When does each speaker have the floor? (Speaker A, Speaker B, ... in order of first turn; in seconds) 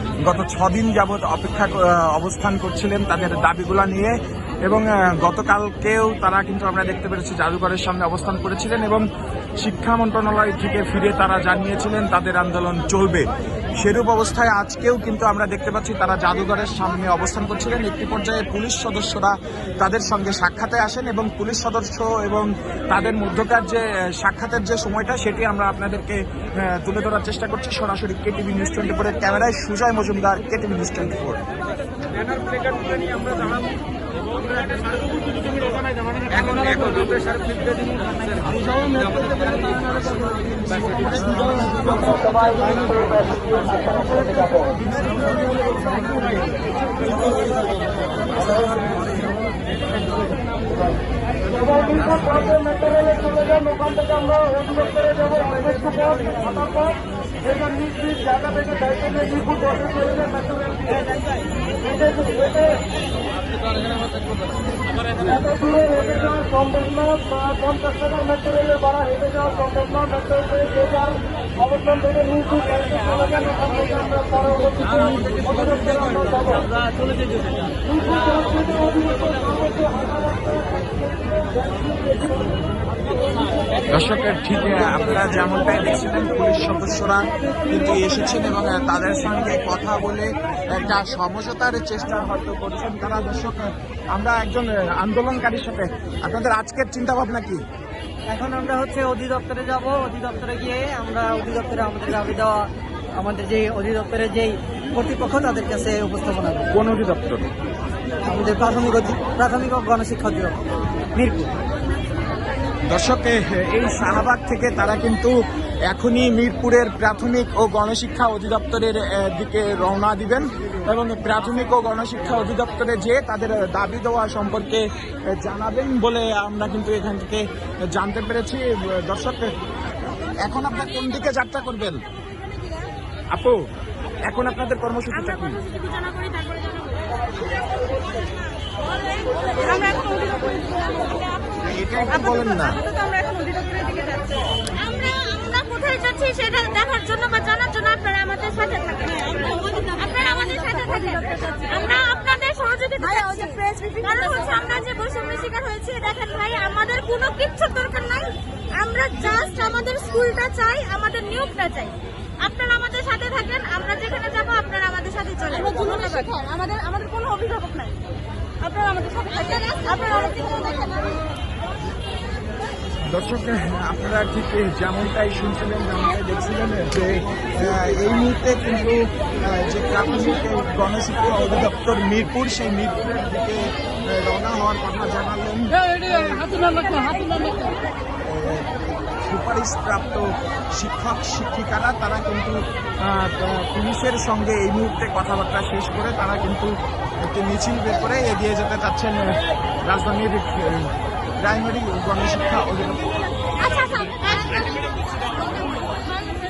Speaker A: 0.2-9.1, 9.6-31.4, 36.4-37.0, 51.9-52.6, 83.9-97.6, 106.7-107.5, 112.9-115.3, 115.9-129.5, 130.4-132.0, 133.3-133.6, 134.3-135.6, 141.7-142.8, 173.1-186.8, 188.2-203.1
Speaker B: 42.1-44.7, 52.6-57.0, 57.5-61.0, 61.9-62.8, 65.3-76.3, 78.1-80.3
Speaker C: 75.0-77.5, 98.3-106.7, 108.2-110.6, 111.2-111.5
Speaker D: 136.0-136.8, 139.4-141.2, 142.7-167.9, 168.6-171.0, 203.6-205.9